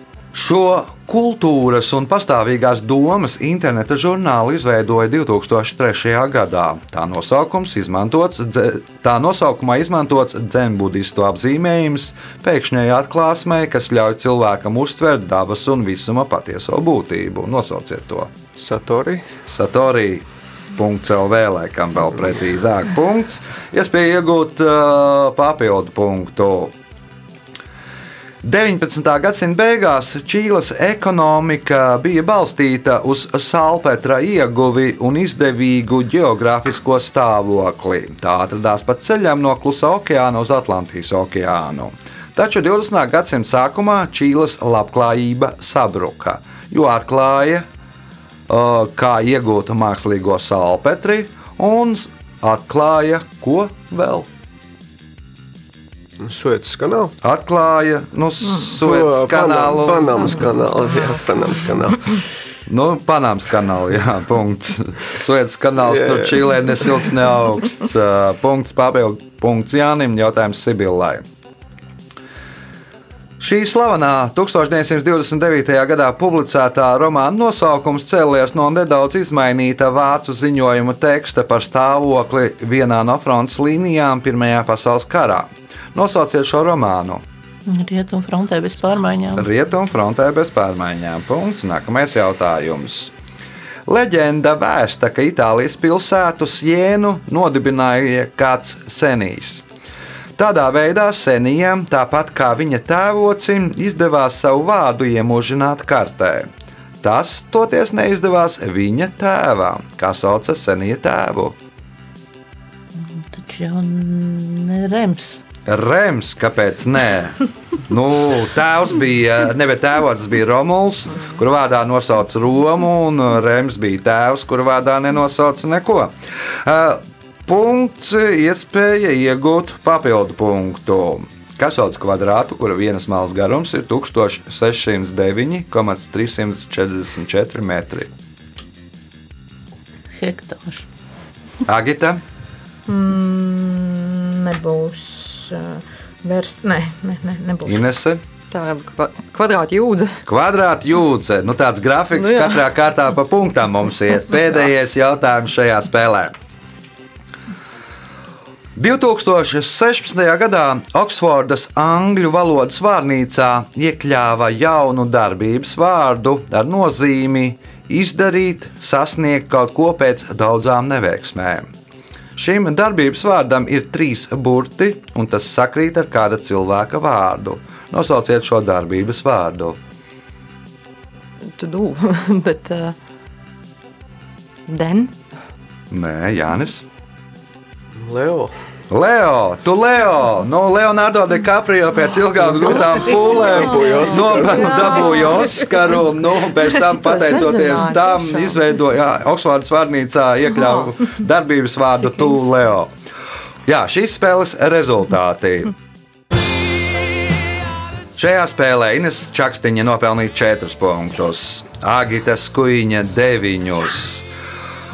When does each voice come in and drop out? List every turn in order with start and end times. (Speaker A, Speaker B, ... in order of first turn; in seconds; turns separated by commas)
Speaker A: 0.3-18.3, Speaker B: 18.6-19.3, Speaker A: 19.5-26.7, Speaker A: 28.4-47.6, Speaker A: 48.5-54.3, Speaker B: 56.2-57.1, Speaker A: 57.2-60.4, Speaker B: 58.8-62.3, Speaker A: 62.7-71.2, Speaker B: 65.8-66.3, Speaker A: 73.4-87.2, Speaker C: 87.7-89.5, Speaker A: 89.3-93.1, Speaker A: 93.9-99.6, Speaker A: 100.3-106.5, Speaker A: 107.0-111.5, Speaker C: 112.9-115.4, Speaker A: 115.7-138.1, Speaker C: 140.1-140.9, Speaker A: 141.7-142.2, Speaker D: 142.9-147.8, Speaker A: 147.7-148.2, Speaker E: 148.5-150.2, Speaker A: 150.3-156.3, Speaker E: 152.2-152.6, Speaker A: 158.8-171.7, Speaker A: 172.3-179.8, Speaker E: 181.4-182.9, Speaker E: 184.7-185.2, Speaker A: 185.9-186.8, Speaker B: 187.9-188.5, Speaker A: 188.9-202.9, Speaker B: 193.0-195.3, Speaker E: 194.2-195.9, Speaker E: 196.8-198.7, Speaker E: 200.6-200.9, Speaker A: 203.7-205.7, Speaker A: 208.1-214.3